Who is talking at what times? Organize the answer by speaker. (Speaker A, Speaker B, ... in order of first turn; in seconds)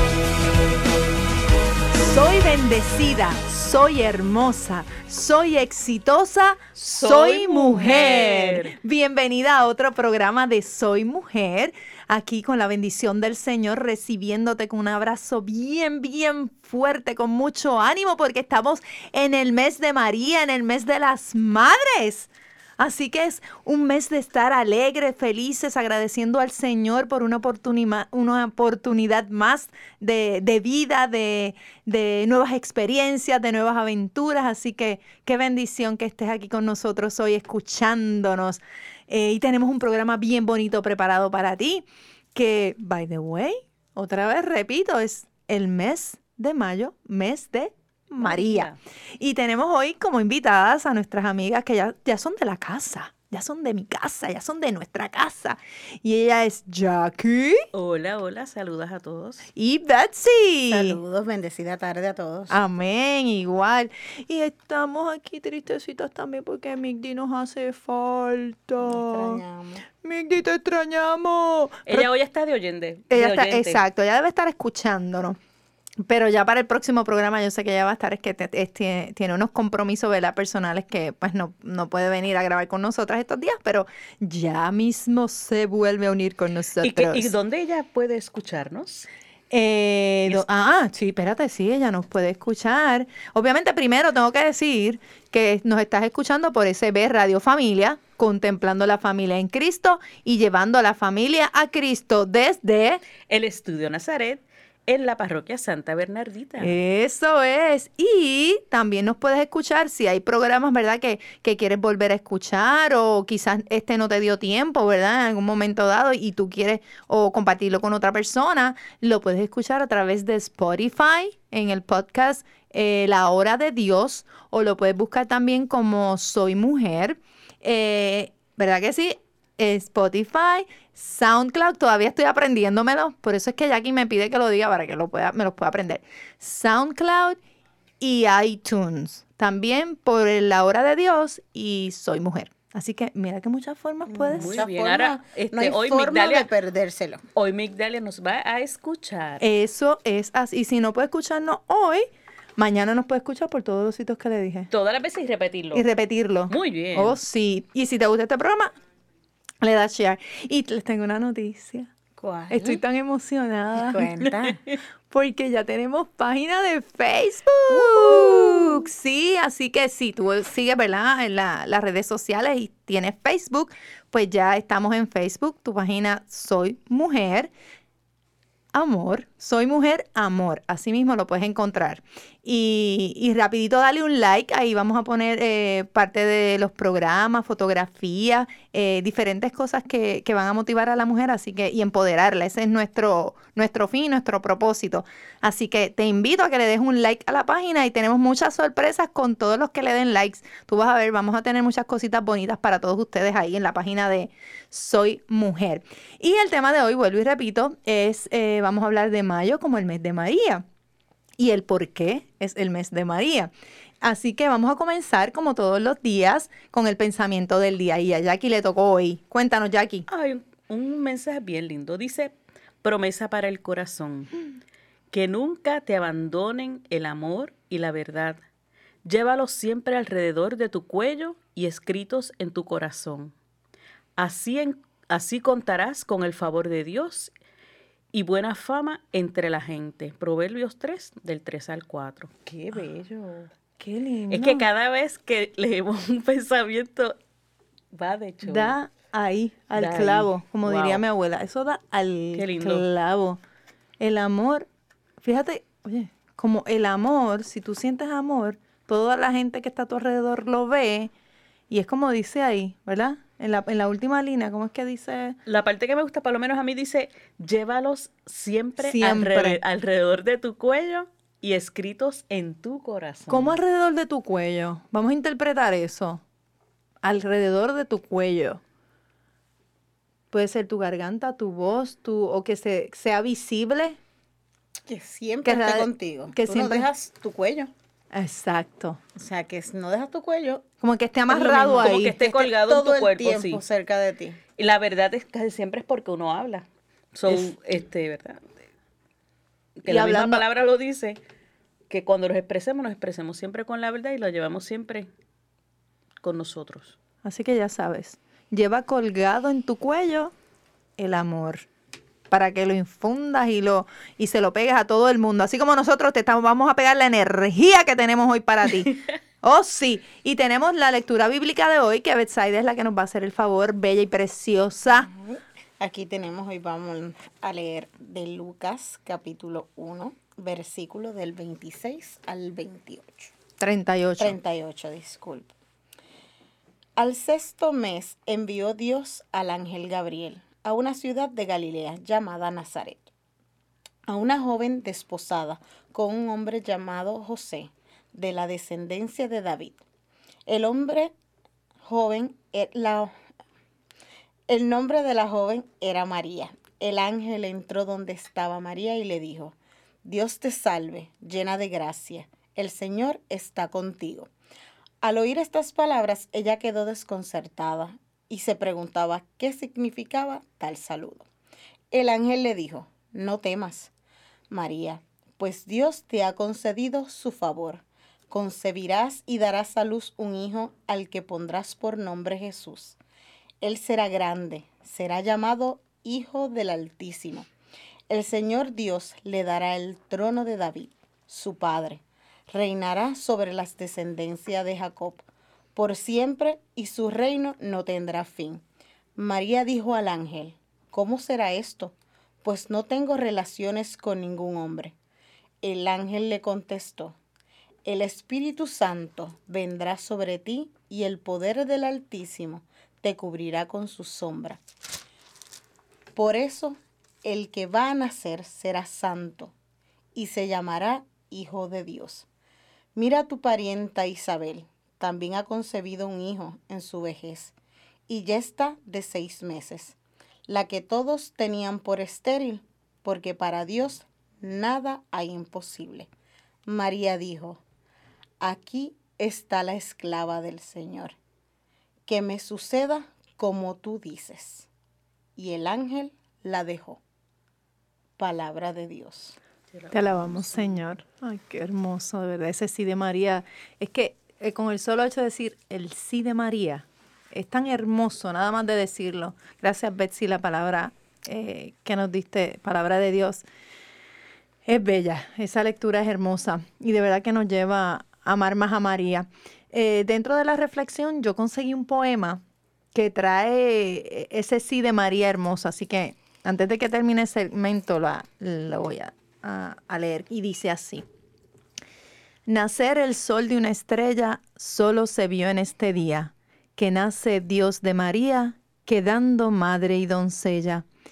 Speaker A: 1.9-57.7, 59.5-61.0, 62.5-69.4, 70.0-72.1, 73.1-75.4, 76.0-87.3, 89.5-103.0, 106.6-137.4, 138.0-144.6, 149.4-152.1, 152.6-154.7, 155.7-158.7, 159.6-161.9, 162.5-164.1, 165.1-177.5, 178.7-210.6, 211.4-213.5, 214.0-220.1, 243.8-244.7, 248.4-253.4, 254.0-254.7, 255.2-261.1, 261.7-265.4, 268.8-269.6, 273.3-276.2, 277.0-278.6, 280.3-284.0, 285.4-286.9, 288.1-289.0, 290.8-292.2, 299.9-300.4, 307.2-310.3, 311.0-311.7, 312.3-325.1, 333.6-334.4, 449.9-463.4, 464.6-472.4, 472.9-481.0, 482.5-490.9
Speaker B: 6.8-8.8, 48.2-48.8, 57.7-59.5, 71.8-73.8, 86.8-89.1, 103.3-106.7, 144.4-146.5, 147.3-149.4, 154.7-155.8, 156.5-157.2, 220.1-224.3, 225.1-228.4, 229.0-233.3, 234.2-237.3, 238.1-243.5, 244.3-247.2, 247.9-248.8, 249.7-251.0, 252.3-252.9, 265.4-273.6, 291.3-293.6, 294.6-298.4, 299.8-301.2, 301.9-305.1, 306.2-307.0, 449.7-450.8
Speaker C: 60.7-62.6, 68.8-69.8, 144.1-147.2, 162.2-162.8, 163.7-164.6, 167.7-168.8, 284.9-287.7, 289.1-290.6, 291.5-294.4, 325.1-333.3, 334.2-335.5, 337.0-343.1, 344.1-349.8, 350.5-351.1, 351.8-353.1, 354.5-364.3, 365.0-371.3, 371.9-373.9, 374.5-383.0, 383.6-387.5, 388.1-395.2, 395.8-398.6, 399.1-404.9, 405.6-407.2, 407.8-414.6, 416.1-419.5, 420.1-422.3, 422.9-427.5, 428.1-436.1, 436.6-437.6, 438.4-441.1, 442.1-444.7, 445.4-447.0, 448.2-449.4